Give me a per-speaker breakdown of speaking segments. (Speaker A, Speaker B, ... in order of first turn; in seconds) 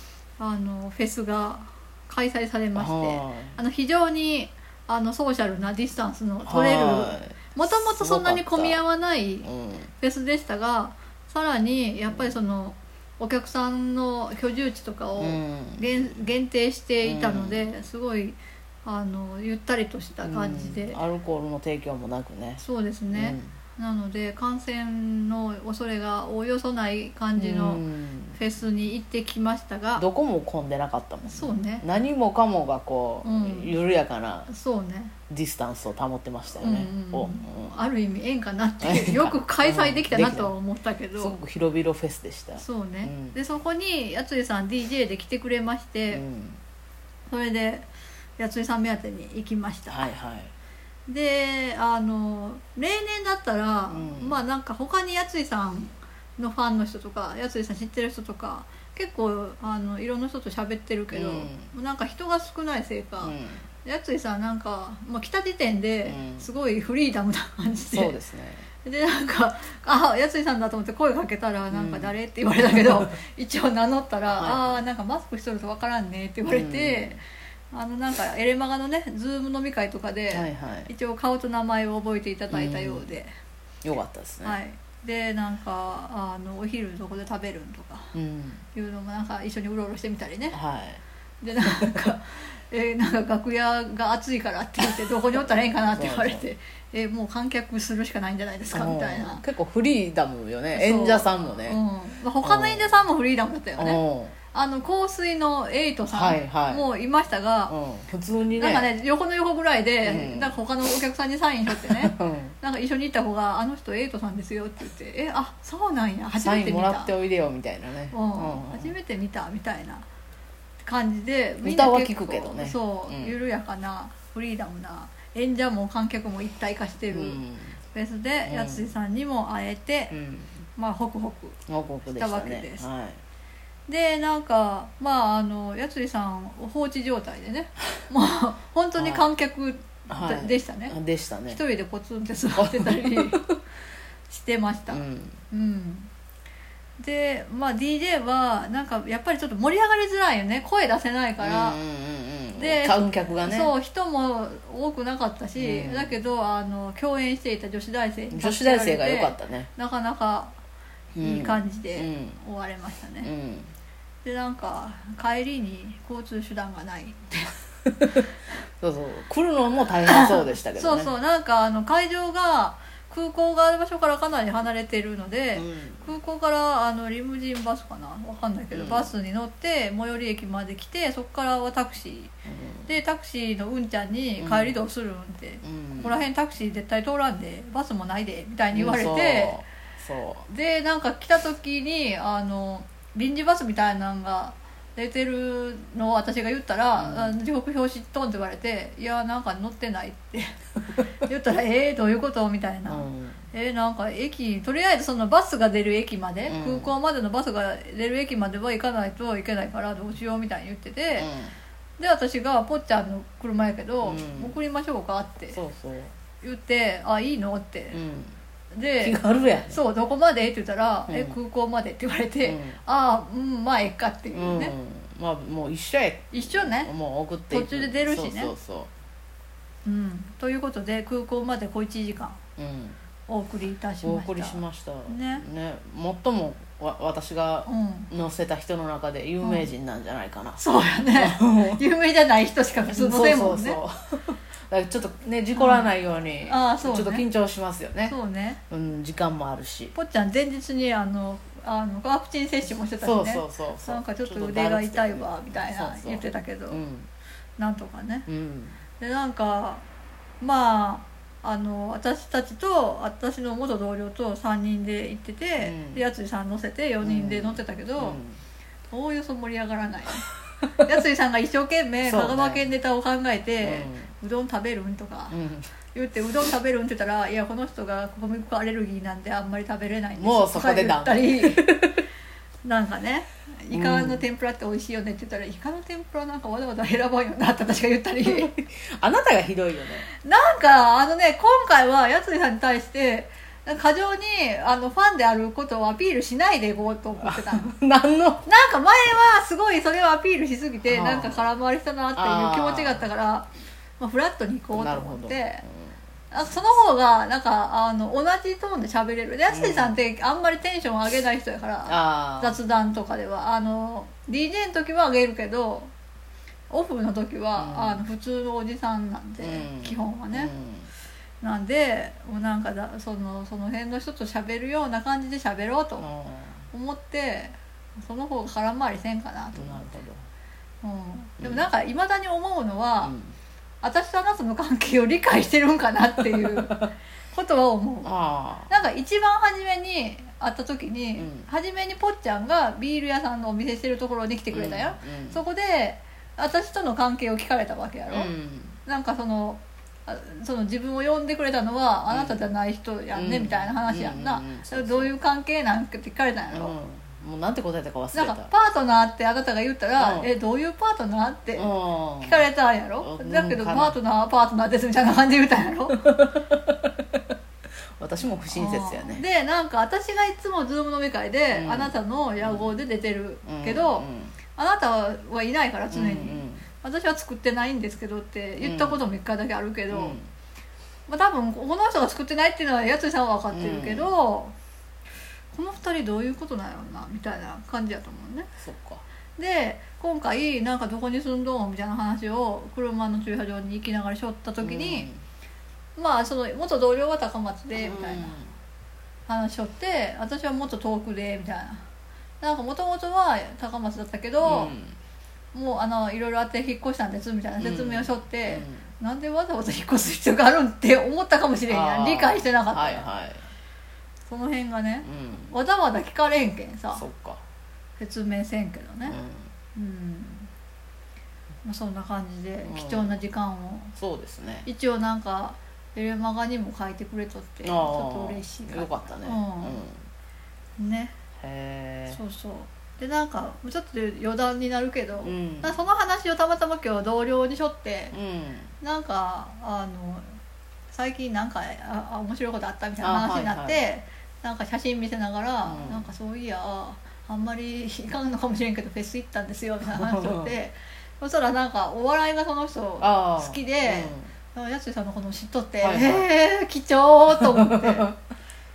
Speaker A: 0.4-9.5, 10.0-21.0, 22.6-30.1, 31.3-31.9, 33.2-33.7, 34.5-35.1, 36.6-41.4, 42.6-46.2, 47.3-50.1, 51.1-68.2, 68.8-83.3, 84.4-88.1, 88.8-90.6, 91.4-99.4, 100.7-104.0, 104.5-107.8, 108.6-117.1, 118.1-120.1, 120.8-127.4, 127.9-130.1, 130.8-132.9, 133.9-141.0, 141.5-143.4, 144.3-146.1, 147.0-151.8, 152.6-160.5, 161.2-163.3, 164.2-167.5, 170.1-182.3, 182.9-189.6, 190.5-200.6, 201.2-211.3, 212.0-215.6, 216.4-218.0, 218.7-224.8, 226.3-226.9, 227.5-228.5, 229.8-232.4, 233.3-235.5, 237.7-238.1, 239.4-239.7, 240.6-243.8, 245.6-247.3, 248.1-248.6, 249.9-256.8, 257.6-258.3, 259.0-259.8, 260.4-268.2, 268.9-270.2, 270.8-275.4, 275.9-281.6, 282.6-288.5, 290.2-297.7, 298.5-305.6, 306.3-315.9, 316.7-320.5, 321.4-326.1, 326.7-329.9, 330.8-333.1, 333.8-338.1, 338.7-348.3, 348.9-356.8, 358.1-366.1, 368.5-380.2, 381.1-384.6, 385.5-388.5, 389.4-395.1, 396.0-398.4, 399.3-401.9, 402.4-404.7, 405.5-413.1, 414.3-417.1, 418.0-419.2, 419.8-420.5, 421.6-423.9, 424.7-429.8, 430.8-431.1, 432.1-438.2, 438.8-440.4, 440.9-458.1
Speaker B: 2.8-3.6, 6.4-8.8, 9.4-9.9, 15.2-16.1, 17.0-17.7, 20.2-22.6, 23.1-23.5, 27.4-28.4, 30.0-34.5, 35.3-37.8, 38.8-40.5, 41.2-43.4, 46.1-46.6, 49.9-50.5, 53.9-54.4, 61.1-61.7, 63.2-63.7, 66.0-66.5, 67.9-68.7, 71.7-72.1, 74.3-74.8, 76.5-77.2, 80.3-80.9, 82.5-83.1, 83.8-84.6, 88.1-88.6, 90.5-91.0, 95.9-96.5, 98.7-101.8, 102.4-103.0, 103.8-104.3, 106.0-106.8, 107.7-108.9, 110.0-110.6, 111.7-112.5, 116.4-118.9, 121.6-123.3, 127.1-127.8, 128.5-128.9, 130.1-130.6, 131.7-133.2, 139.0-139.3, 140.1-141.6, 142.6-143.6, 144.9-145.4, 151.4-153.7, 155.6-156.2, 158.3-159.7, 161.2-162.4, 163.2-163.7, 168.8-171.1, 175.6-176.1, 178.7-179.1, 182.5-182.9, 184.4-184.8, 185.6-186.2, 188.7-190.5, 197.0-197.4, 202.9-203.4, 206.5-206.9, 211.2-211.6, 214.0-214.6, 215.5-216.1, 217.9-218.3, 219.0-219.8, 221.1-221.4, 222.4-222.8, 224.3-228.9, 232.6-233.0, 234.0-240.6, 241.2-241.8, 242.9-248.2, 248.7-249.9, 253.0-257.1, 258.3-258.8, 265.6-266.0, 267.0-268.4, 272.0-272.7, 273.6-274.1, 275.3-275.7, 280.2-282.0, 283.7-284.2, 288.2-290.1, 297.2-298.5, 300.9-301.5, 302.2-303.1, 304.7-305.9, 309.5-310.0, 311.9-312.6, 317.6-318.0, 319.4-320.9, 326.0-326.6, 329.6-330.2, 333.0-333.4, 336.4-336.9, 338.0-338.7, 341.2-341.5, 344.5-345.4, 348.1-348.8, 352.1-352.4, 353.1-355.1, 356.5-358.5, 360.0-360.3, 361.6-362.5, 363.0-364.0, 365.9-366.8, 368.0-369.2, 371.5-372.8, 373.4-374.4, 375.9-376.6, 378.6-379.0, 379.9-380.3, 383.5-384.1, 388.6-389.0, 394.6-395.2, 397.8-398.5, 404.4-405.0, 407.6-408.9, 411.7-413.4, 415.0-415.5, 416.9-417.4, 419.1-419.5, 422.6-423.1, 424.0-424.7, 427.6-430.0, 431.4-432.2, 435.2-435.7, 438.1-438.7, 443.0-443.8, 445.6-446.1, 449.9-450.5, 453.0-454.3, 455.8-456.3, 457.3-458.1